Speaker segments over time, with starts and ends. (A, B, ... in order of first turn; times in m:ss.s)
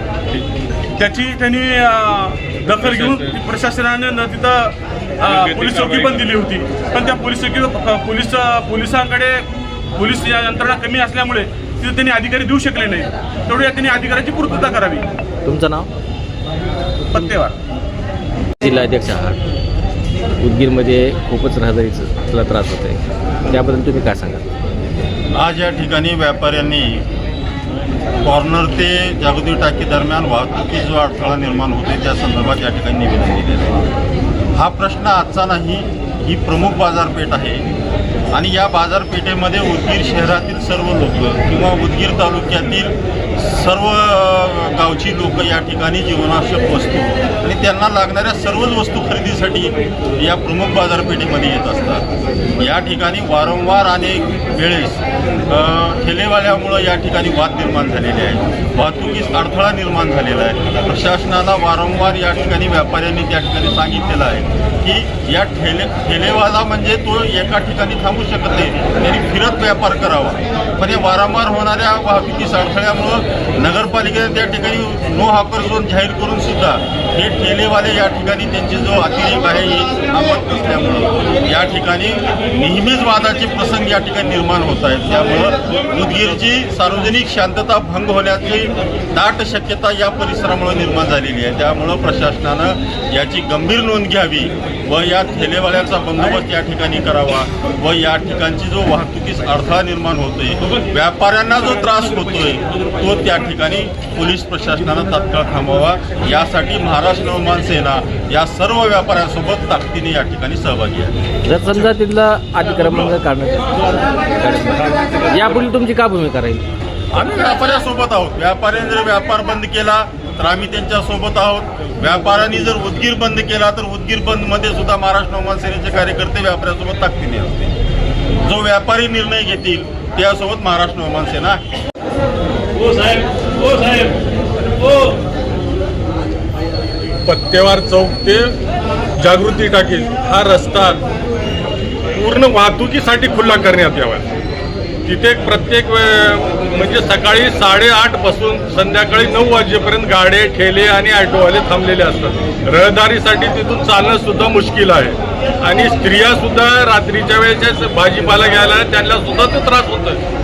0:01.0-0:15.1 A
0:05.3-0:06.2 B
0:15.4-0:15.9 C
0:17.1-0:17.6 A
0:18.6-0:19.4 C
0:20.4-0:24.4 C
0:25.3-0:27.0 D
0:28.2-0:33.9 D
0:34.5-0:37.6 D
0:38.3-0:52.0 D
0:52.6-1:51.2 D
1:51.4-1:56.7 C
1:57.1-2:07.7 D
2:08.4-2:11.6 D
2:12.8-2:14.2 B
2:14.8-2:15.2 B
2:17.2-2:18.5 B
2:19.2-2:21.0 B
2:22.1-2:24.3 B
2:25.0-2:40.2 B